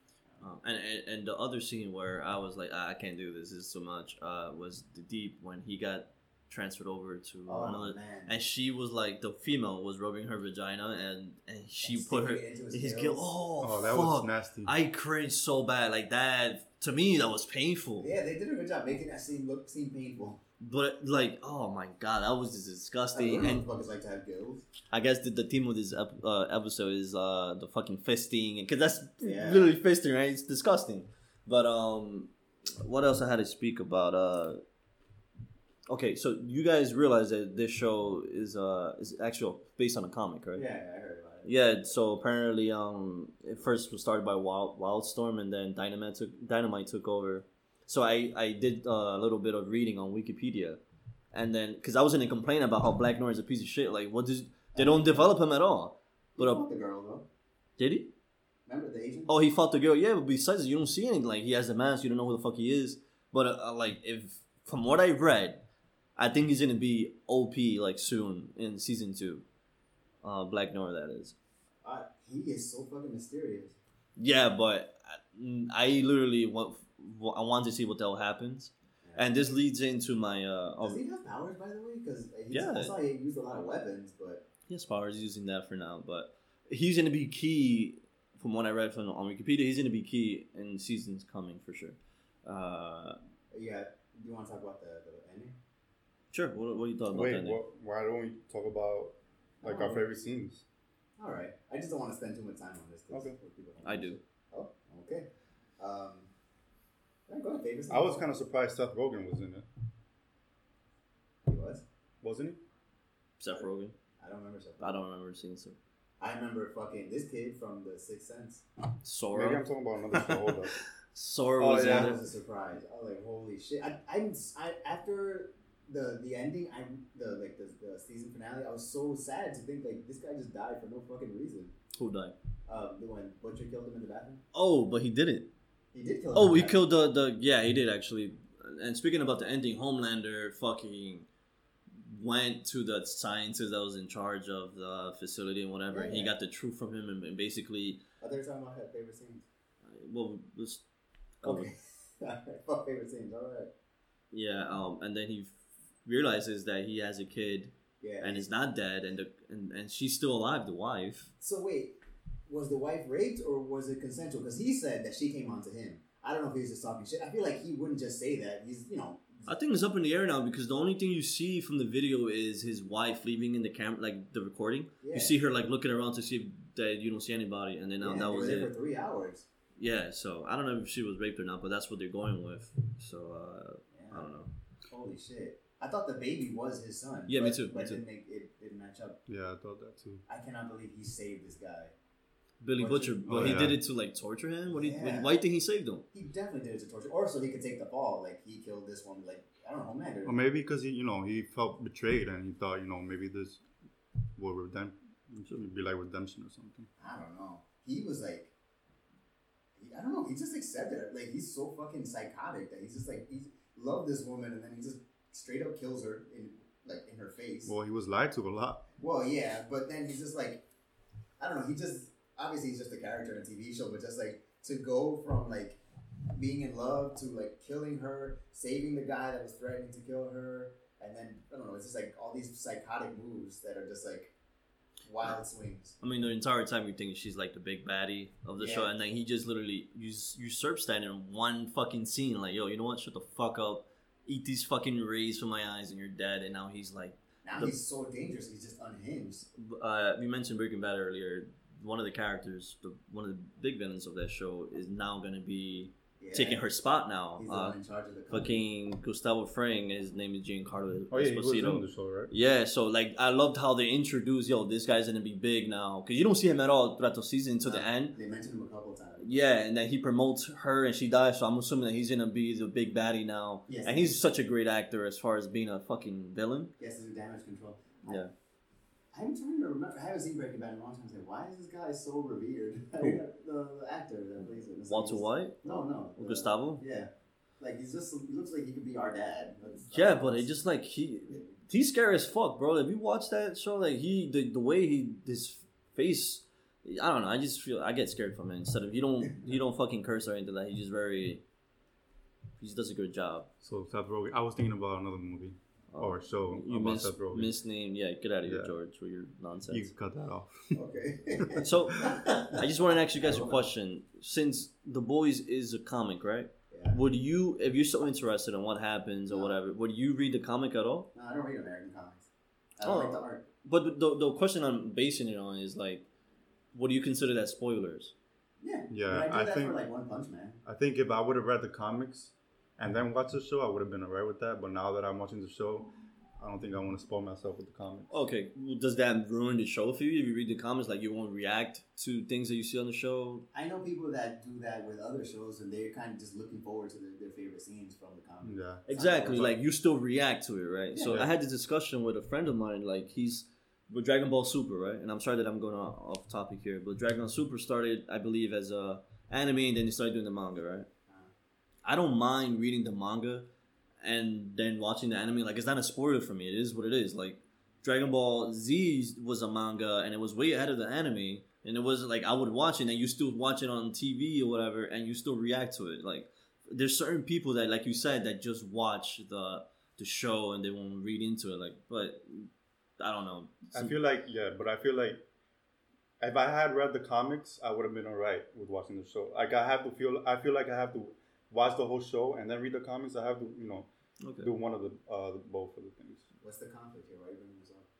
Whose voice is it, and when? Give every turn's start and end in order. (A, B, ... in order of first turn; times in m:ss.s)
0:00.4-0:18.1 A
0:07.5-0:08.4 B
0:11.8-0:13.3 B
0:13.6-0:14.7 C
0:18.0-0:20.4 B
0:20.6-0:23.6 A
0:23.1-0:24.7 B
0:24.9-0:34.6 A
0:29.2-0:29.7 B
0:35.9-0:40.6 A
0:40.5-0:41.5 B
0:41.4-0:50.8 A
0:51.3-0:56.6 A
0:54.7-0:55.3 B
0:56.4-0:57.3 B
0:57.8-0:58.1 A
0:58.7-0:59.3 B
0:59.3-1:05.6 A
1:06.2-1:09.4 A
1:10.2-1:11.3 A
1:11.8-1:13.8 B
1:14.2-1:21.0 A
1:19.0-1:19.4 B
1:20.8-1:24.4 B
1:22.5-1:23.0 A
1:24.7-1:33.2 A
1:33.5-1:35.6 B
1:36.3-1:37.6 A
1:37.1-1:40.6 C
1:39.6-1:40.0 B
1:41.2-1:45.3 B
1:43.1-1:43.4 C
1:43.8-1:44.2 A
1:45.8-1:46.3 B
1:47.3-1:48.2 B
1:47.9-1:49.7 C
1:51.4-1:51.8 B
1:52.2-1:52.6 C
1:53.4-1:54.0 A
1:54.2-1:55.0 B
1:54.8-1:55.8 A
1:56.2-1:58.6 B
1:59.0-2:02.2 A
1:59.3-2:00.8 C
2:01.6-2:02.1 C
2:01.7-2:11.7 B
2:11.9-2:12.3 A
2:12.7-2:14.4 B
2:14.5-2:15.5 A
2:15.9-2:16.8 B
2:16.3-2:21.3 A
2:22.0-2:28.0 A
2:25.9-2:26.3 B
2:28.2-2:29.4 B
2:29.8-2:30.8 A
2:31.4-2:31.7 A
2:31.4-2:33.7 B
2:34.3-2:41.3 A
2:38.0-2:38.5 B
2:41.4-2:42.0 B
2:42.5-2:49.5 B
2:49.5-2:58.7 A
2:55.0-2:55.3 B
2:58.0-2:59.4 B
2:59.8-3:04.5 A
3:03.9-3:04.3 B
3:04.9-3:09.2 B
3:07.3-3:08.0 A
3:09.3-3:10.2 C
3:10.3-3:11.9 B
3:12.6-3:16.0 A
3:12.8-3:13.7 B
3:13.3-3:13.8 C
3:14.7-3:15.3 B
3:16.1-3:20.4 B
3:20.2-3:23.6 C
3:24.4-3:26.9 C
3:27.0-3:28.5 B
3:29.8-3:37.7 B
3:37.7-3:38.8 C
3:39.0-3:40.6 B
3:41.4-3:45.8 B
3:46.3-3:54.3 B
3:55.0-3:56.0 B
3:56.0-4:07.7 A
3:58.6-3:58.9 B
4:07.4-4:09.5 B
4:09.6-4:17.8 A
4:16.2-4:16.6 B
4:17.4-4:18.6 B
4:18.3-4:28.2 A
4:21.1-4:22.3 C
4:27.6-4:29.3 B
4:29.2-4:36.7 A
4:33.7-4:34.2 B
4:36.8-4:38.2 B
4:38.0-4:38.3 A
4:39.1-4:50.5 B
4:44.9-4:46.8 A
4:49.9-5:01.4 A
5:02.6-5:03.5 A
5:03.6-5:07.6 C
5:05.9-5:09.9 A
5:08.4-5:08.7 C
5:09.7-5:10.8 C
5:10.7-5:13.6 B
5:11.6-5:21.1 A
5:16.7-5:17.0 B
5:19.3-5:19.6 B
5:21.1-5:22.3 B
5:22.8-5:23.4 B
5:22.8-5:26.0 A
5:26.7-5:28.1 A
5:28.6-5:30.6 B
5:28.9-5:29.8 C
5:30.6-5:38.1 C
5:38.1-5:43.5 A
5:43.5-5:49.5 B
5:48.4-5:49.6 C
5:48.9-6:00.9 A
5:50.9-5:51.2 B
6:01.8-6:03.5 A
6:04.0-6:23.9 A
6:23.7-6:25.2 C
6:26.2-6:36.2 C
6:34.2-6:34.5 A
6:36.4-6:37.9 B